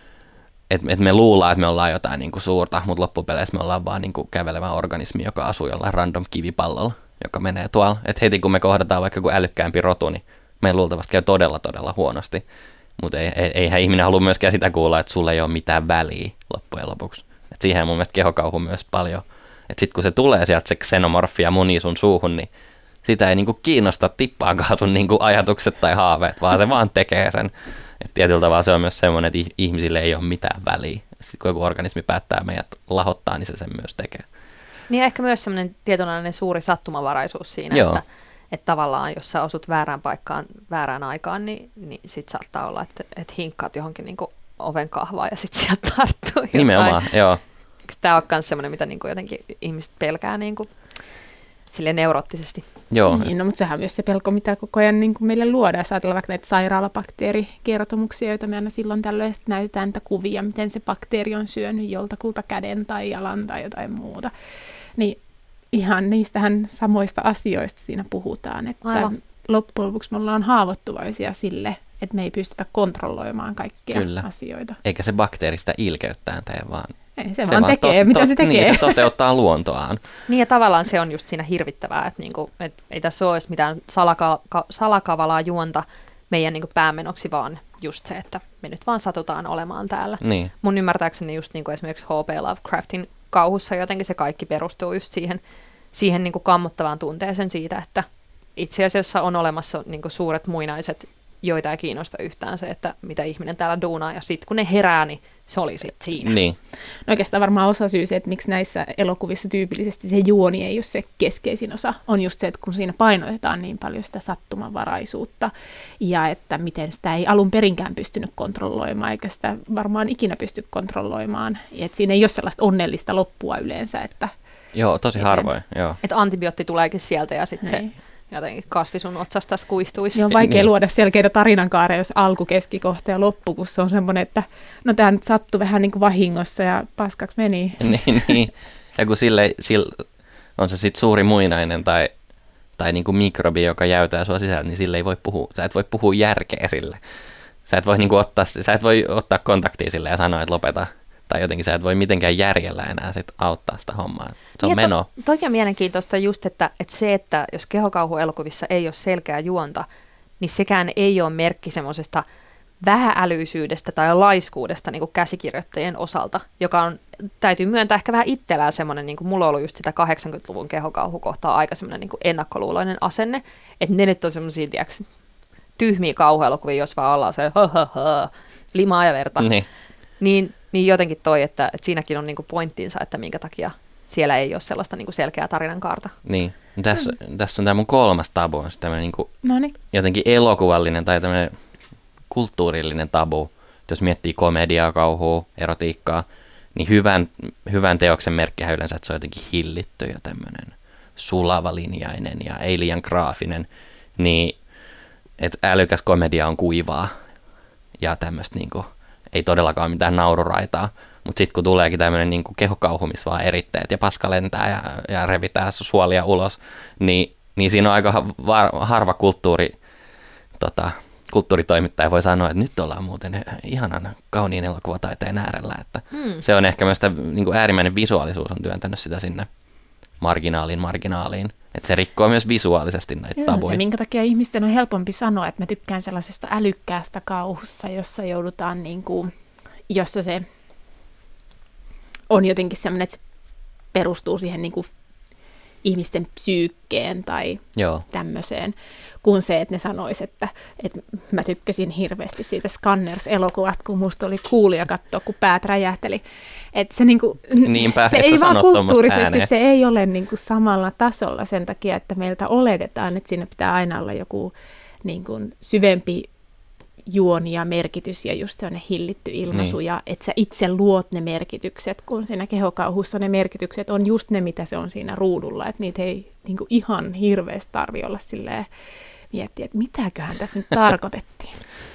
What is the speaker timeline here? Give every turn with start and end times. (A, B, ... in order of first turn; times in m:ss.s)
0:00.7-0:12.4 A
0:13.0-0:22.5 A
0:23.0-0:34.2 A
0:34.9-0:47.0 B
0:37.7-0:38.0 A
0:46.5-0:47.4 A
0:47.9-0:50.7 B
0:51.7-0:52.6 B
0:52.9-0:53.3 A
0:53.1-1:04.3 C
1:05.7-1:14.8 C
1:08.8-1:09.1 B
1:13.9-1:14.2 A
1:14.8-1:16.9 A
1:17.2-1:19.1 C
1:17.4-1:20.0 A
1:20.3-1:35.4 B
1:30.2-1:30.5 A
1:35.9-1:46.4 B
1:46.2-1:46.6 A
1:47.1-2:04.3 C
2:04.7-2:06.0 A
2:06.0-2:10.3 B
2:10.1-2:18.4 C
2:10.4-2:10.7 A
2:17.8-2:20.0 A
2:20.6-2:22.1 A
2:22.8-2:27.0 A
2:27.7-2:35.1 A
2:34.6-2:39.8 B
2:40.4-2:42.2 B
2:42.8-2:55.0 B
2:55.8-2:59.5 B
2:59.4-2:59.6 A
3:00.2-3:06.1 B
3:06.2-3:09.3 A
3:09.4-3:09.7 C
3:09.9-3:11.5 A
3:12.3-3:24.6 A
3:25.4-3:27.1 A
3:28.0-3:39.8 A
3:40.6-3:49.5 A
3:46.1-3:46.4 B
3:50.2-3:53.8 A
3:53.4-3:59.3 C
3:59.9-4:00.4 C
4:02.3-4:03.2 C
4:03.9-4:04.9 C
4:05.8-4:16.2 C
4:07.8-4:08.0 A
4:16.7-4:24.5 C
4:17.6-4:19.5 A
4:25.0-4:26.3 C
4:27.1-4:38.7 C
4:29.5-4:29.8 A
4:39.3-4:41.6 C